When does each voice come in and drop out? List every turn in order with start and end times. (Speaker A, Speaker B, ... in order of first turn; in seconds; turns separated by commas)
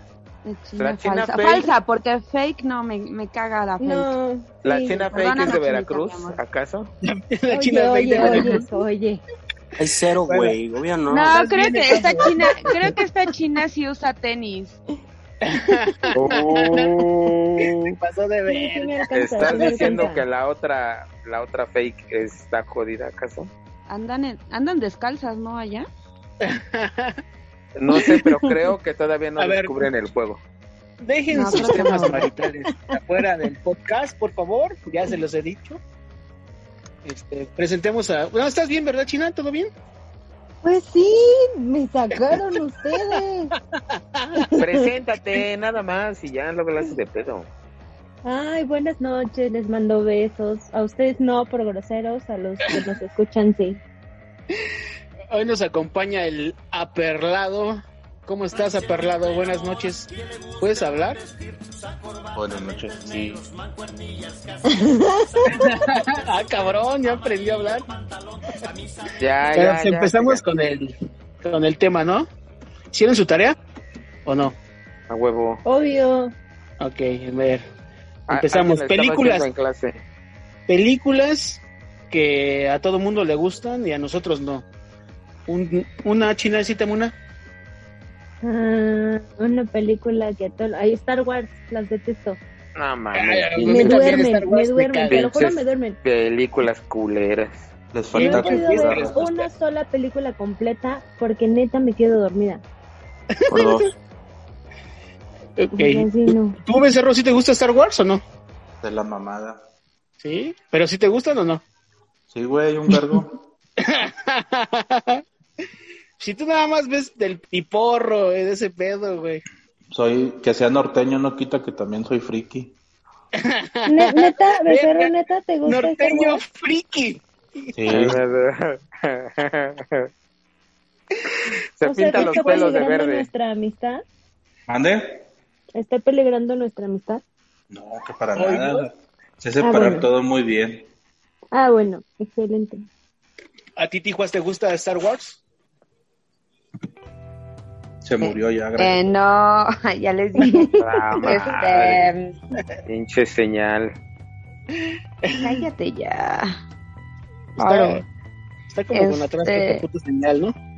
Speaker A: 0.4-4.1, Speaker B: 0.8-1.7, Speaker C: 3.8-5.0, Speaker B: 4.6-6.9, Speaker A: 5.0-6.4, Speaker D: 7.0-8.6, Speaker C: 7.5-9.2, Speaker A: 8.2-8.6, Speaker E: 9.8-11.3, Speaker D: 10.3-10.6, Speaker A: 11.1-14.8, Speaker D: 11.1-12.9, Speaker D: 15.4-16.9, Speaker B: 16.1-18.0, Speaker D: 17.6-20.1, Speaker C: 18.5-20.2, Speaker B: 19.1-23.5, Speaker A: 23.9-25.9, Speaker D: 26.4-27.2, Speaker B: 27.8-30.4, Speaker D: 29.4-29.8, Speaker D: 31.0-35.8, Speaker A: 31.3-32.3, Speaker C: 32.7-33.0, Speaker D: 37.0-39.7, Speaker C: 40.6-43.5, Speaker D: 43.7-44.5, Speaker B: 44.6-47.5, Speaker C: 48.2-53.8, Speaker D: 55.3-61.2, Speaker F: 62.3-63.4, Speaker C: 64.7-65.7, Speaker D: 65.5-67.9, Speaker B: 69.2-70.4, Speaker D: 69.5-72.3, Speaker D: 72.9-73.6, Speaker D: 74.3-74.6, Speaker B: 75.1-75.6, Speaker C: 75.7-76.3, Speaker D: 76.8-77.7, Speaker B: 78.3-80.0, Speaker D: 78.3-79.5, Speaker D: 80.7-84.6, Speaker D: 85.5-87.1, Speaker C: 88.4-92.4, Speaker B: 92.8-94.2, Speaker D: 93.1-95.3, Speaker C: 93.6-96.0, Speaker B: 95.1-97.7, Speaker F: 97.9-99.4, Speaker D: 98.1-99.2, Speaker C: 98.2-102.6, Speaker D: 103.3-103.9, Speaker E: 103.5-103.9, Speaker D: 105.6-108.2, Speaker C: 105.7-106.6, Speaker F: 108.8-109.6, Speaker D: 110.2-111.6, Speaker F: 112.3-113.4, Speaker D: 113.8-115.2, Speaker D: 116.2-119.4, Speaker F: 119.9-122.7, Speaker D: 123.4-125.1, Speaker C: 123.9-126.4, Speaker D: 125.7-127.8, Speaker F: 127.7-128.2, Speaker B: 127.9-130.1, Speaker B: 131.8-133.3, Speaker C: 131.8-134.0, Speaker D: 132.1-132.5, Speaker F: 134.7-135.2, Speaker C: 135.8-137.2, Speaker F: 137.7-140.9, Speaker D: 138.4-138.8, Speaker C: 139.6-140.1, Speaker C: 141.5-142.9, Speaker D: 143.8-145.4, Speaker F: 148.0-149.1, Speaker A: 148.2-152.4, Speaker C: 150.4-150.7, Speaker B: 150.8-152.1, Speaker B: 152.9-153.9, Speaker D: 154.9-155.6, Speaker A: 155.4-156.6, Speaker D: 157.6-158.0, Speaker A: 157.6-158.0, Speaker D: 158.7-160.6, Speaker A: 158.9-159.8